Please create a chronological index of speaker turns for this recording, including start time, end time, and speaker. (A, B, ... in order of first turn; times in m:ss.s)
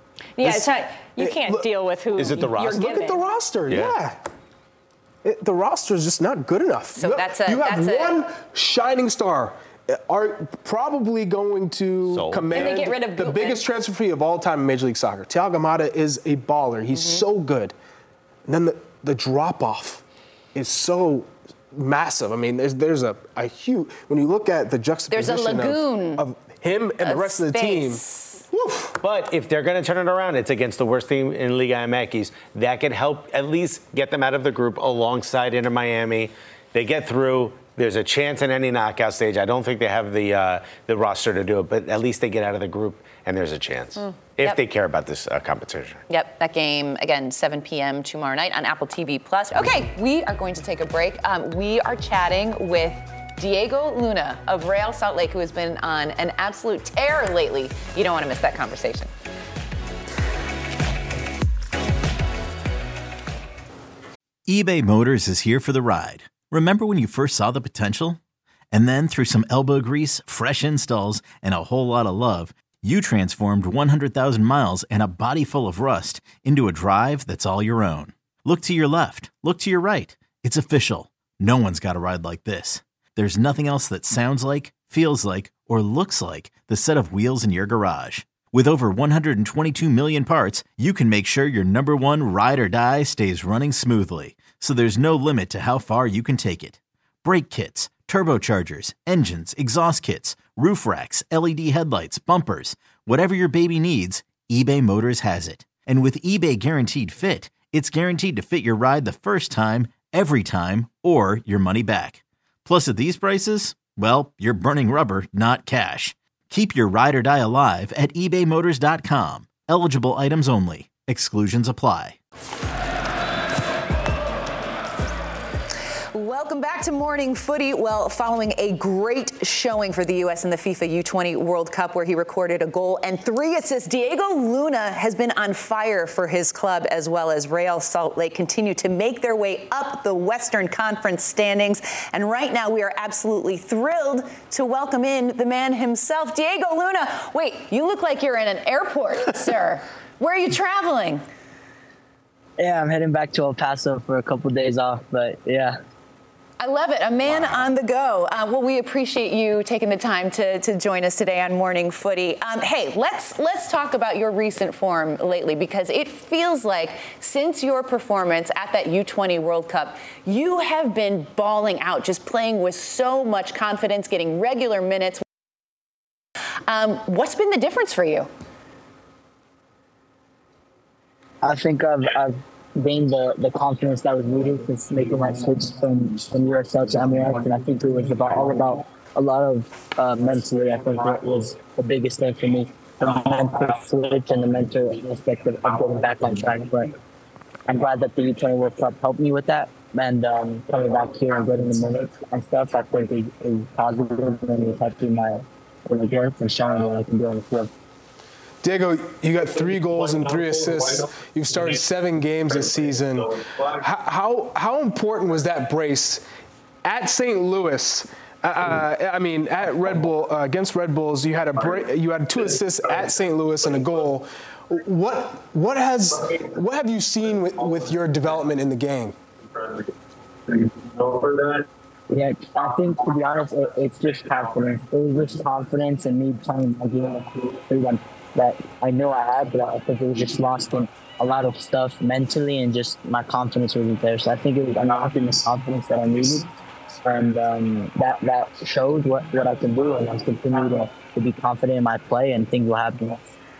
0:00.4-0:03.2 A
0:00.4-0:01.7 B
0:02.2-0:02.9 C
0:02.5-0:04.2 B
0:03.7-0:04.0 C
0:05.2-0:17.7 B
0:07.0-0:08.2 D
0:12.1-0:12.7 C
0:12.5-0:13.7 A
0:16.9-0:17.2 D
0:18.5-0:20.0 B
0:20.5-0:29.0 B
0:25.1-0:26.2 D
0:27.0-0:28.4 D
0:29.0-0:46.0 C
0:46.1-0:59.1 D
1:04.5-1:08.2 E
1:08.7-2:02.2 E
2:06.1-2:31.2 D
2:32.6-2:35.8 F
2:36.6-2:55.2 D
2:56.7-2:58.3 D
3:01.4-3:16.9 F
3:17.7-3:27.7 F
3:28.6-3:36.2 B
3:36.8-3:49.1 B
3:52.1-4:06.5 F
4:07.0-4:13.2 F